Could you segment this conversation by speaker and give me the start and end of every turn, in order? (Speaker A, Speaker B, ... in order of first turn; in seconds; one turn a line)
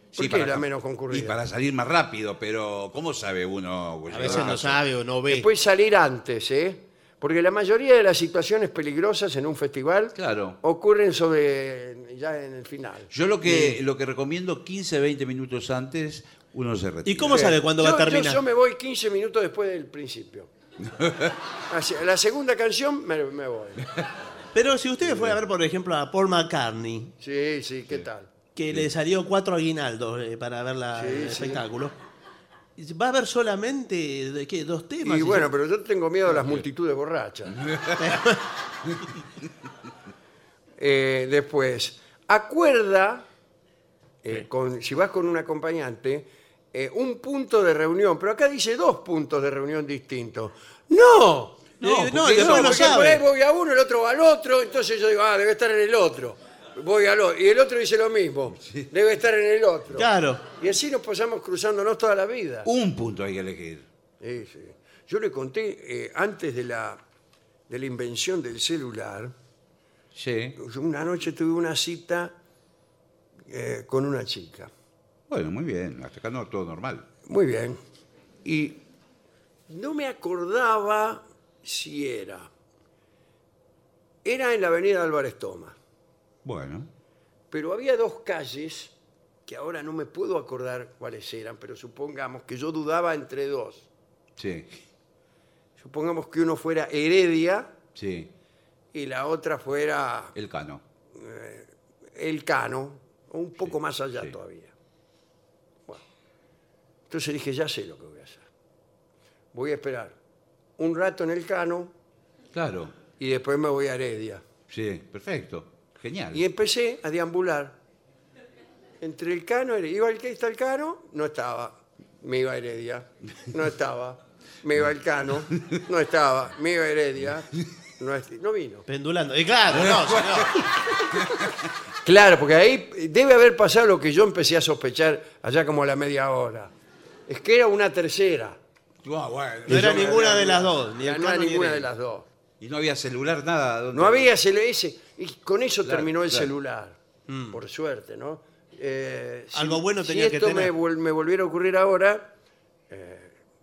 Speaker A: 0.1-4.8
Speaker B: 0.2-1.4
Speaker C: 4.1-5.5
Speaker B: 5.3-13.7
Speaker A: 10.2-10.6
Speaker A: 13.1-17.5
Speaker C: 17.1-18.4
Speaker B: 17.3-20.5
Speaker A: 20.8-21.4
Speaker B: 21.7-23.8
Speaker C: 24.6-27.1
Speaker B: 27.2-28.3
Speaker C: 28.6-31.9
Speaker B: 30.9-31.6
Speaker C: 32.8-35.5
Speaker B: 35.0-37.6
Speaker A: 37.7-38.0
Speaker C: 38.0-38.4
Speaker B: 40.8-43.2
Speaker B: 44.2-62.7
Speaker C: 51.8-53.2
Speaker A: 51.8-53.0
Speaker C: 60.0-60.4
Speaker A: 62.6-63.9
Speaker B: 64.2-67.0
Speaker B: 67.7-69.3
Speaker A: 70.2-70.6
Speaker B: 70.6-72.3
Speaker B: 73.5-74.7
Speaker A: 75.3-77.1
Speaker B: 77.3-77.8
Speaker B: 78.5-78.8
Speaker B: 79.7-82.5
Speaker B: 84.2-85.8
Speaker A: 86.4-86.9
Speaker B: 87.5-88.9
Speaker B: 89.5-93.9
Speaker A: 94.4-94.8
Speaker B: 95.8-97.7
Speaker A: 98.0-98.3
Speaker B: 98.9-100.3
Speaker A: 100.3-100.8
Speaker B: 101.1-104.7
Speaker B: 107.1-108.5
Speaker B: 109.5-110.2
Speaker B: 110.8-111.9
Speaker A: 112.5-112.9
Speaker B: 113.2-114.4
Speaker A: 114.7-116.4
Speaker B: 116.3-117.8
Speaker B: 119.0-128.9
Speaker C: 128.9-130.6
Speaker A: 129.7-131.5
Speaker B: 132.1-136.7
Speaker B: 137.3-138.6
Speaker A: 139.0-140.2
Speaker B: 139.7-142.3
Speaker C: 139.7-141.9
Speaker A: 142.6-144.3
Speaker B: 143.9-147.0
Speaker A: 145.8-146.5
Speaker C: 147.3-147.6
Speaker B: 147.5-152.3
Speaker C: 149.5-150.7
Speaker B: 152.9-153.4